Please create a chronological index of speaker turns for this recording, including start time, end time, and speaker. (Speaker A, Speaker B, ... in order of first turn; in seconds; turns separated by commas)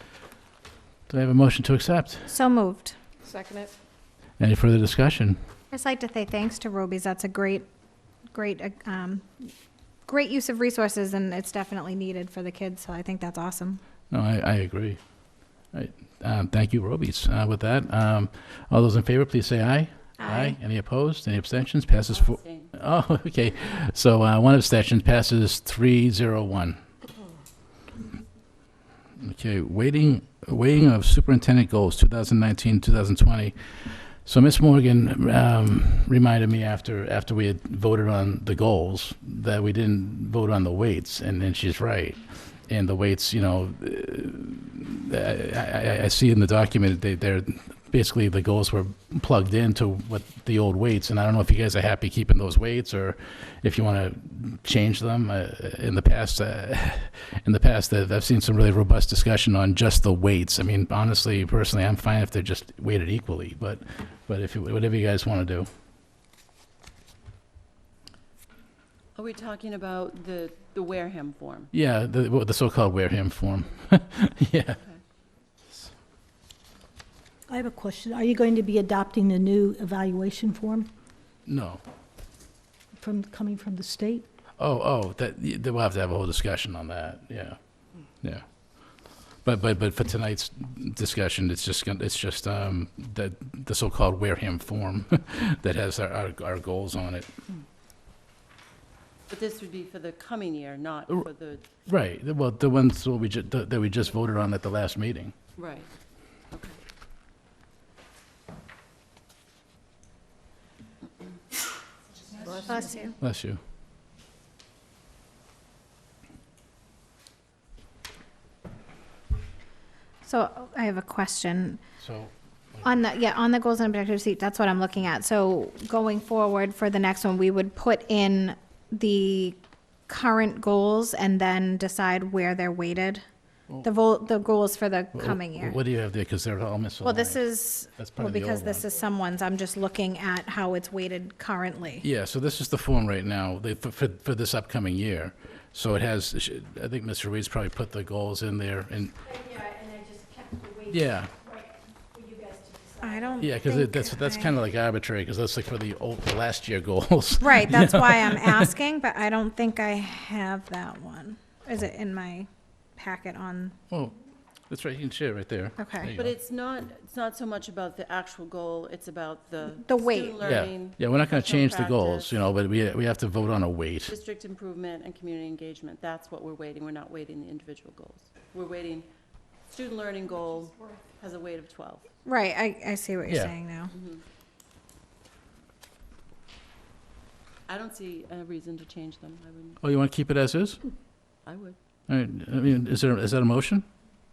Speaker A: 1.1-2.3, Speaker B: 2.3-3.0, Speaker A: 4.4-5.4, Speaker B: 5.7-7.7, Speaker B: 8.3-9.5, Speaker B: 10.1-13.8, Speaker A: 14.1-15.0, Speaker A: 15.7-26.8, Speaker B: 20.2-20.6, Speaker C: 22.1-22.7, Speaker A: 29.2-65.7, Speaker C: 69.1-71.7, Speaker A: 71.7-74.8, Speaker D: 77.5-80.9, Speaker A: 81.5-81.8, Speaker D: 83.0-84.3, Speaker A: 84.6-87.6, Speaker A: 89.4-97.3, Speaker C: 99.3-101.6, Speaker A: 101.9-105.3, Speaker C: 105.5-105.9, Speaker C: 106.5-106.8, Speaker B: 112.7-113.1, Speaker A: 113.2-113.6, Speaker B: 120.2-121.8, Speaker A: 122.0-122.8, Speaker B: 122.8-129.6, Speaker B: 130.1-133.2, Speaker B: 133.8-135.8, Speaker A: 135.1-137.4, Speaker B: 137.0-142.0, Speaker A: 137.9-138.8, Speaker A: 142.0-149.2, Speaker A: 150.8-151.3, Speaker B: 153.0-154.5, Speaker A: 153.4-158.7, Speaker B: 157.4-163.8, Speaker A: 164.7-166.3, Speaker B: 165.8-166.1, Speaker C: 166.2-172.4, Speaker B: 169.8-170.4, Speaker A: 170.4-174.1, Speaker C: 174.1-179.1, Speaker C: 179.7-182.1, Speaker B: 182.2-183.9, Speaker A: 183.3-183.5, Speaker C: 183.9-184.2, Speaker C: 187.7-189.8, Speaker A: 189.8-190.8, Speaker C: 191.4-191.8, Speaker A: 192.1-193.8